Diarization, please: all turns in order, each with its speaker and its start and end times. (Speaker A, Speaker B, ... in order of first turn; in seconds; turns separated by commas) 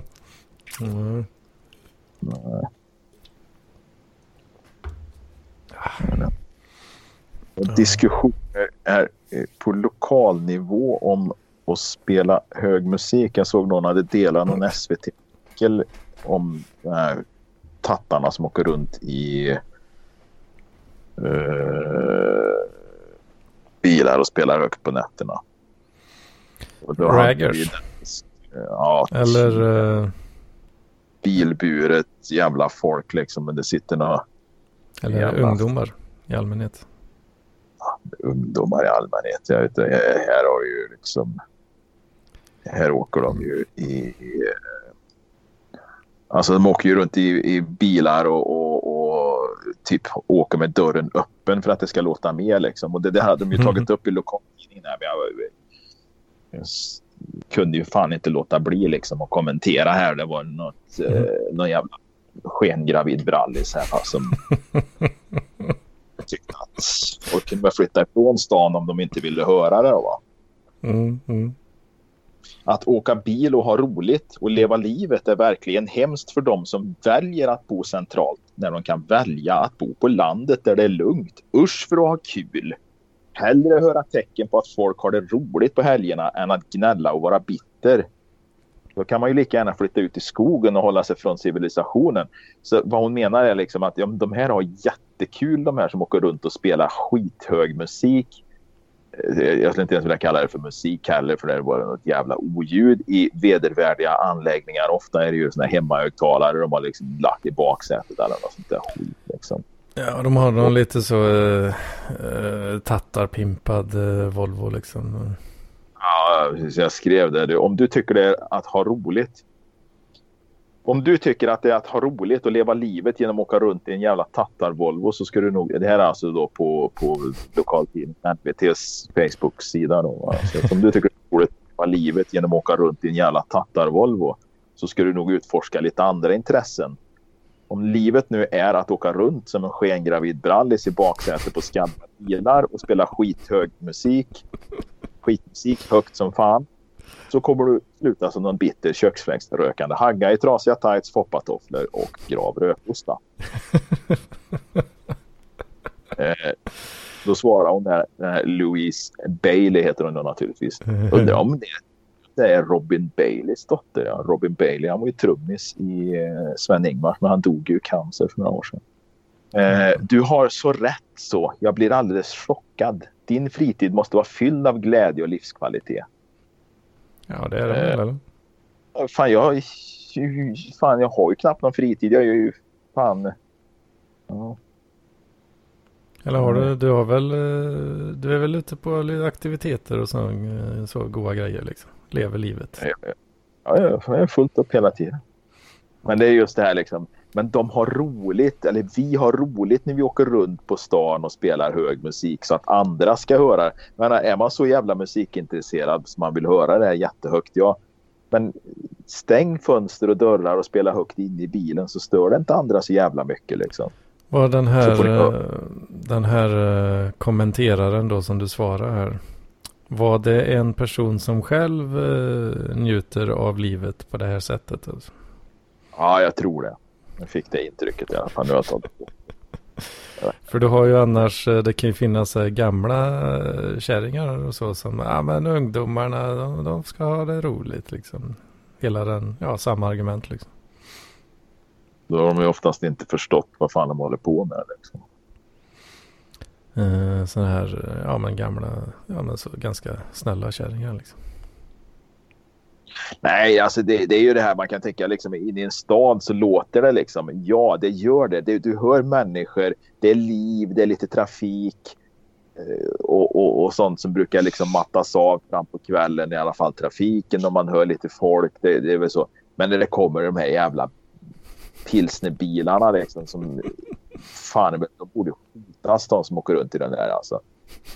Speaker A: 0.8-1.3, Speaker B: 2.2-2.7, Speaker B: 6.0-6.3, Speaker B: 7.6-17.2, Speaker A: 7.7-8.0, Speaker B: 17.8-19.6, Speaker B: 21.2-22.7, Speaker B: 23.8-25.4, Speaker B: 26.8-29.6, Speaker A: 27.0-27.8, Speaker A: 29.1-30.1, Speaker B: 31.2-34.2, Speaker A: 35.0-36.9, Speaker B: 35.1-35.6, Speaker B: 37.8-41.3, Speaker B: 42.7-44.6, Speaker B: 46.3-55.5, Speaker B: 56.5-64.4, Speaker B: 66.3-70.2, Speaker A: 70.8-71.5, Speaker B: 72.7-82.8, Speaker B: 83.4-88.1, Speaker B: 89.0-98.4, Speaker B: 99.1-109.6, Speaker A: 110.0-115.4, Speaker B: 116.0-119.4, Speaker B: 120.9-137.0, Speaker B: 137.7-144.4, Speaker B: 145.2-146.7, Speaker B: 147.3-153.2, Speaker B: 156.2-156.6, Speaker B: 157.2-161.8, Speaker A: 161.0-161.3, Speaker B: 162.4-168.8, Speaker B: 169.5-176.1, Speaker A: 177.3-178.2, Speaker B: 177.7-177.9, Speaker B: 178.9-183.3, Speaker B: 184.3-184.6, Speaker A: 186.2-192.9, Speaker B: 186.4-186.7, Speaker B: 192.8-195.2, Speaker B: 196.1-207.8, Speaker B: 208.3-213.9, Speaker A: 214.3-219.2, Speaker B: 214.8-215.3, Speaker A: 219.9-225.1, Speaker B: 225.9-229.1, Speaker A: 230.5-240.5, Speaker B: 242.1-245.0, Speaker A: 246.7-251.2, Speaker B: 253.2-261.9, Speaker B: 262.6-270.9, Speaker B: 271.9-273.7, Speaker B: 274.3-277.4